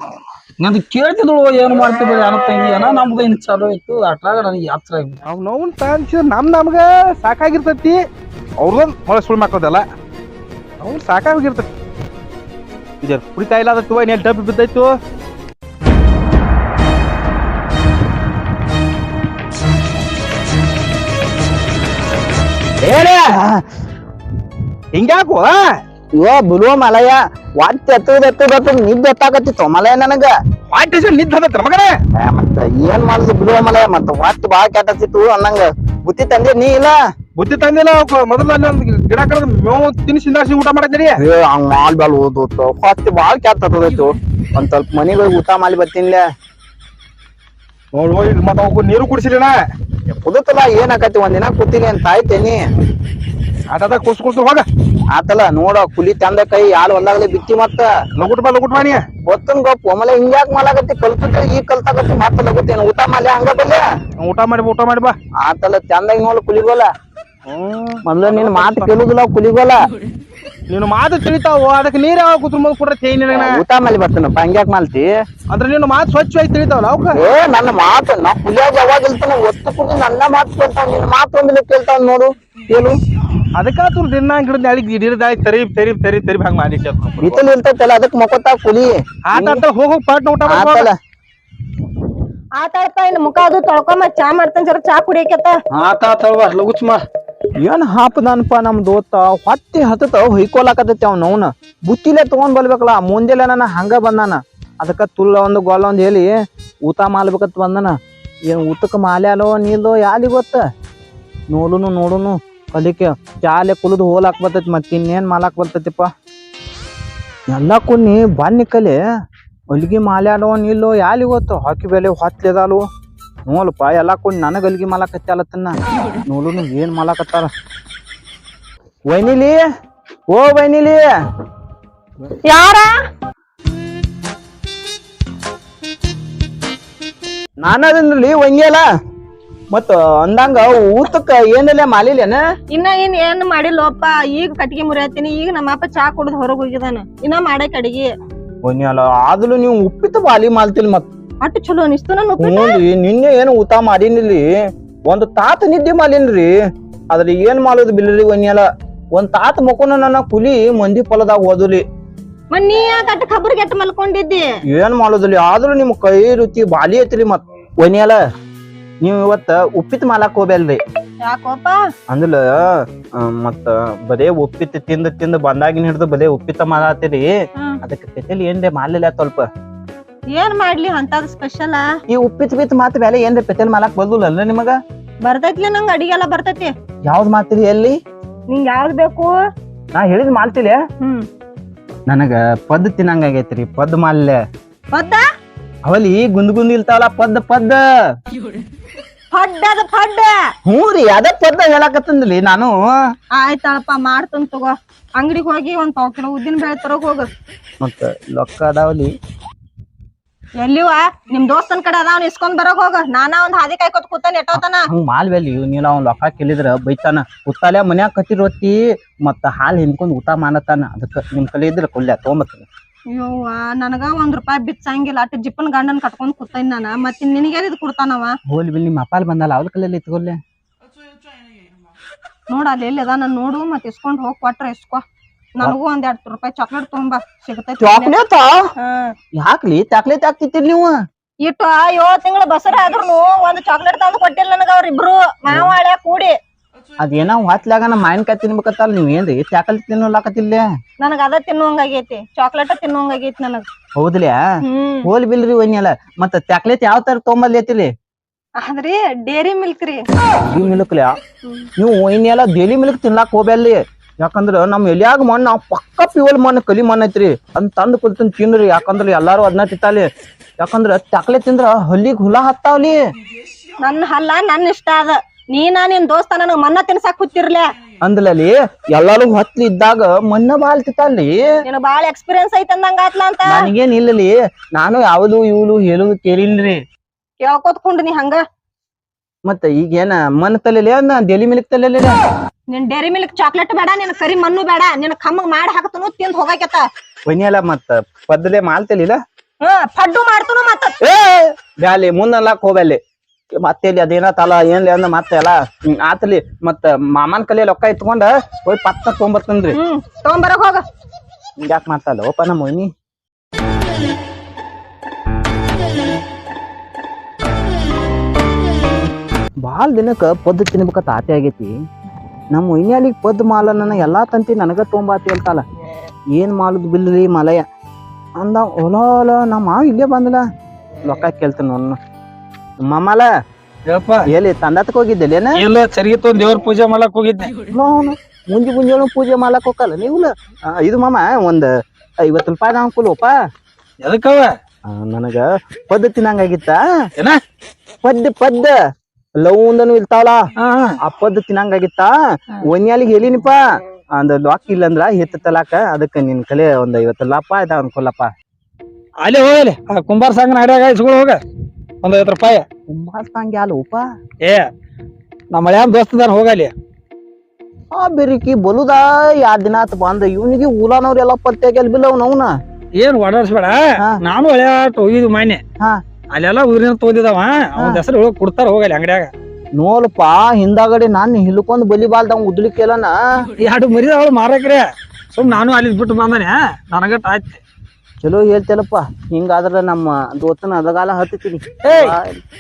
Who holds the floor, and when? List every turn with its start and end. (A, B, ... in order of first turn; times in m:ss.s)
0:00.6-0:05.2 A
0:05.2-0:08.0 B
0:08.6-0:09.8 B
0:10.8-0:11.7 B
0:13.0-0:15.0 B
0:22.8-0:23.3 B
0:24.9-0:25.6 B
0:26.2-0:30.3 C
0:30.7-0:31.9 B
0:32.2-0:37.0 C
0:37.4-0:41.2 B
0:41.2-0:46.2 C
0:47.9-0:49.6 B
0:50.1-0:52.6 C
0:53.7-0:54.6 B
0:55.1-0:57.9 C
0:58.2-0:59.1 B
0:59.3-1:03.8 C
1:04.2-1:05.2 B
1:05.4-1:06.9 C
1:07.5-1:09.0 B
1:08.0-1:09.9 C
1:10.7-1:13.6 B
1:13.3-1:15.1 C
1:15.5-1:17.2 B
1:17.1-1:23.0 C
1:23.6-1:27.4 B
1:27.2-1:29.6 C
1:29.3-1:30.9 B
1:30.5-1:30.9 C
1:32.6-1:35.6 D
1:35.7-1:37.0 A
1:37.6-1:50.7 C
1:51.5-1:56.1 C
1:57.5-1:59.0 C
1:59.7-2:02.9 C
2:03.5-2:07.5 C
2:09.1-2:09.6 C
2:10.3-2:11.1 C
2:12.4-2:13.0 D
2:17.6-2:18.8 C
2:19.7-2:22.4 C
2:22.7-2:28.1 D
2:28.6-2:31.1 C
2:31.4-2:32.8 D
2:32.4-2:36.5 C
2:37.1-2:41.8 C
2:42.5-2:44.5 D
2:44.7-2:48.2 C
2:49.0-2:50.8 C
2:51.2-2:51.8 D
2:52.1-2:59.5 C
3:00.3-3:01.9 D
3:02.1-3:04.8 C
3:05.2-3:06.7 D
3:07.0-3:08.0 C
3:08.5-3:09.4 D
3:09.9-3:10.8 C
3:11.0-3:11.3 D
3:12.1-3:14.4 C
3:14.9-3:15.2 D
3:15.8-3:17.8 C
3:19.3-3:20.4 D
3:20.6-3:23.2 C
3:23.3-3:27.3 D
3:27.8-3:29.2 C
3:30.6-3:34.9 D
3:34.6-3:42.7 C
3:43.1-3:48.4 D
3:48.5-3:50.4 C
3:52.5-3:55.0 D
3:55.6-3:58.2 D
3:57.8-3:58.7 C
3:58.8-3:59.2 D
3:59.4-4:01.0 C
4:01.4-4:06.4 D
4:07.0-4:10.6 C
4:11.0-4:13.7 D
4:14.0-4:14.5 C
4:14.6-4:15.1 D
4:15.1-4:17.9 C
4:18.6-4:20.0 D
4:20.4-4:21.2 C
4:21.8-4:33.0 C
4:33.8-4:37.7 D
4:38.0-4:41.5 C
4:41.7-4:43.7 D
4:43.5-4:46.8 C
4:47.4-4:48.4 D
4:49.4-4:52.2 C
4:52.7-4:56.9 D
4:57.3-4:59.2 C
4:59.6-5:01.0 D
5:01.0-5:03.0 C
5:03.6-5:09.8 C
5:09.7-5:10.8 D
5:11.6-5:12.9 C
5:19.6-5:21.7 C
5:22.5-5:25.6 C
5:26.3-5:27.7 C
5:28.4-5:30.5 C
5:31.0-5:32.0 C
5:32.8-5:33.3 C
5:33.9-5:34.3 A
5:34.3-5:35.6 C
5:35.6-5:37.5 A
5:37.7-5:41.7 C
5:42.2-5:43.4 C
5:44.0-5:44.6 A
5:44.9-5:47.1 C
5:48.0-5:48.8 C
5:49.4-5:50.5 C
5:50.6-5:51.0 A
5:51.0-5:53.6 C
5:54.2-5:58.3 C
5:59.2-6:01.4 A
6:02.0-6:02.7 A
6:02.9-6:04.0 C
6:04.4-6:04.7 A
6:05.5-6:06.7 A
6:07.9-6:12.6 C
6:13.0-6:15.6 A
6:16.3-6:19.3 A
6:19.7-6:23.2 C
6:23.6-6:27.6 A
6:28.2-6:32.4 C
6:31.8-6:32.2 A